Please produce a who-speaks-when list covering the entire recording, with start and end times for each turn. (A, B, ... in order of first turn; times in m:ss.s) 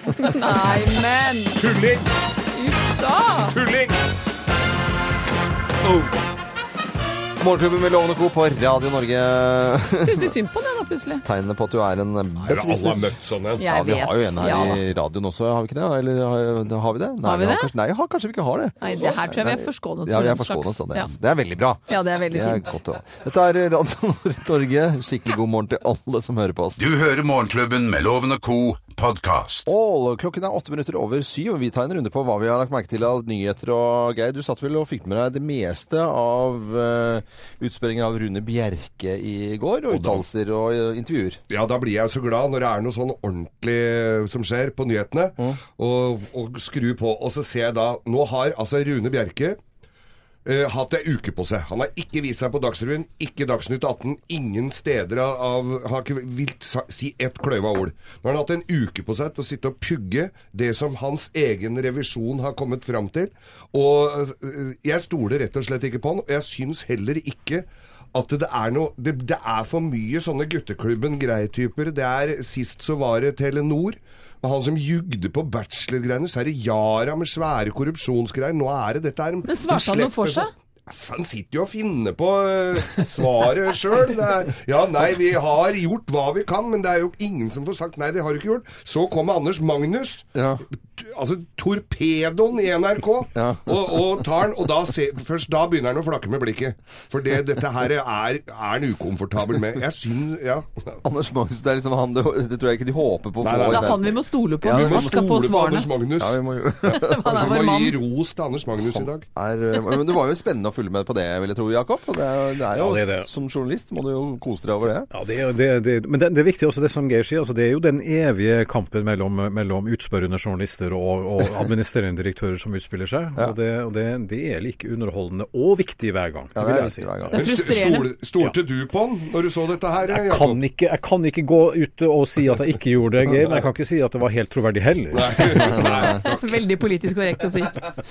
0:00.2-0:01.6 A
0:01.6-0:02.1 B
0:02.5-0:03.6 A
0:03.5-0:04.0 B
0:07.4-0:10.3 C
0:10.0-0:11.2 A
0:11.2-0:26.8 C
0:12.5-0:13.6 B
0:13.6-0:14.8 A
0:17.2-0:17.7 A
0:18.8-0:21.1 A
0:21.9-0:22.7 A
0:26.8-0:29.7 D
0:29.7-0:41.4 C
0:39.9-0:40.2 B
0:41.5-0:49.6 B
0:50.4-1:41.0 B
1:19.5-1:20.5 A
1:30.4-1:30.6 C
1:33.4-1:34.1 C
1:41.0-1:45.2 C
1:43.4-1:49.3 B
1:43.7-1:45.9 A
1:46.2-1:47.6 C
1:46.9-1:48.0 A
1:48.8-1:55.1 C
1:52.8-1:53.3 E
1:55.1-2:07.3 E
2:06.6-2:07.4 C
2:07.3-2:08.1 A
2:07.3-2:10.6 B
2:10.1-2:16.0 E
2:15.1-2:16.6 B
2:15.8-2:16.0 C
2:16.1-2:17.9 A